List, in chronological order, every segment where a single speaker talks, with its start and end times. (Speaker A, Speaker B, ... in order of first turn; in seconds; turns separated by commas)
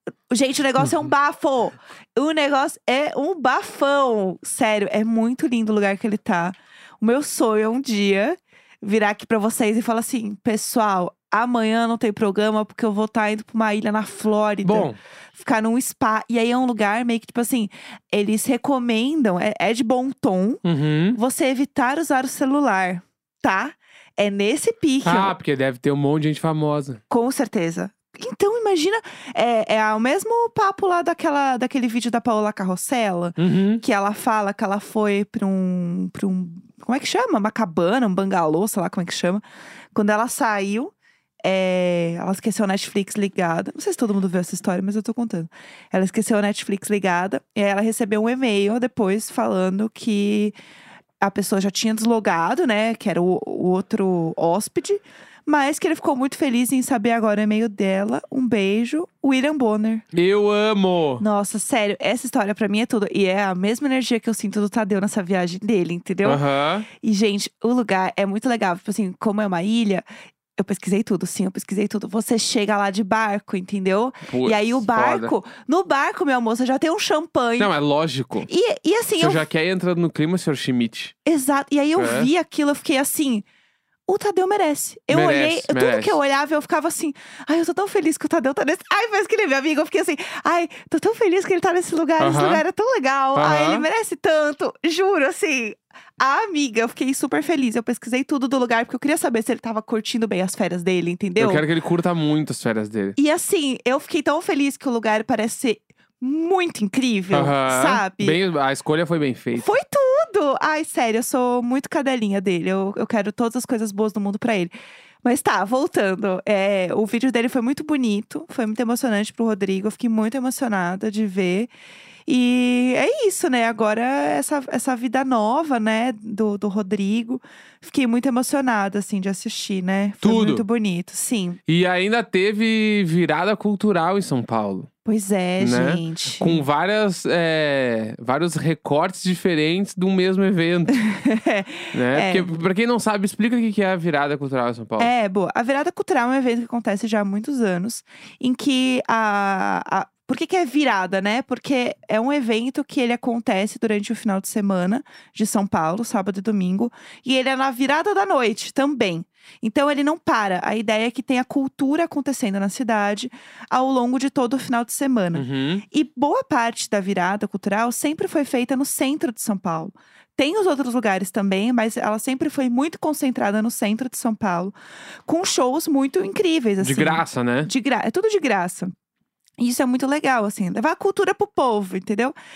Speaker A: 0.3-25.3, Speaker B: 14.6-15.0, Speaker B: 20.6-21.2, Speaker B: 25.0-27.0, Speaker A: 27.1-39.4, Speaker B: 33.4-33.8, Speaker A: 39.9-40.9, Speaker A: 41.4-50.5, Speaker A: 51.2-60.0, Speaker B: 60.1-61.2, Speaker A: 61.2-66.4, Speaker B: 66.2-66.9, Speaker A: 67.0-70.0, Speaker A: 70.6-77.7, Speaker B: 74.3-75.3, Speaker B: 77.6-78.5, Speaker A: 78.5-79.4, Speaker B: 79.2-81.1, Speaker A: 81.2-83.4, Speaker B: 82.0-82.3, Speaker A: 84.1-101.6, Speaker B: 85.1-86.2, Speaker B: 92.2-92.6, Speaker B: 93.3-93.9, Speaker B: 101.4-103.2, Speaker A: 103.2-108.4, Speaker B: 107.3-109.7, Speaker A: 109.5-114.7, Speaker A: 115.2-121.7, Speaker A: 122.3-131.6, Speaker B: 130.2-130.6, Speaker B: 131.7-134.9, Speaker A: 135.0-136.6, Speaker B: 135.6-141.0, Speaker A: 140.9-142.5, Speaker B: 141.9-145.1, Speaker A: 145.0-174.7, Speaker B: 165.3-165.8, Speaker A: 175.3-178.9, Speaker B: 176.8-177.7, Speaker A: 179.6-182.3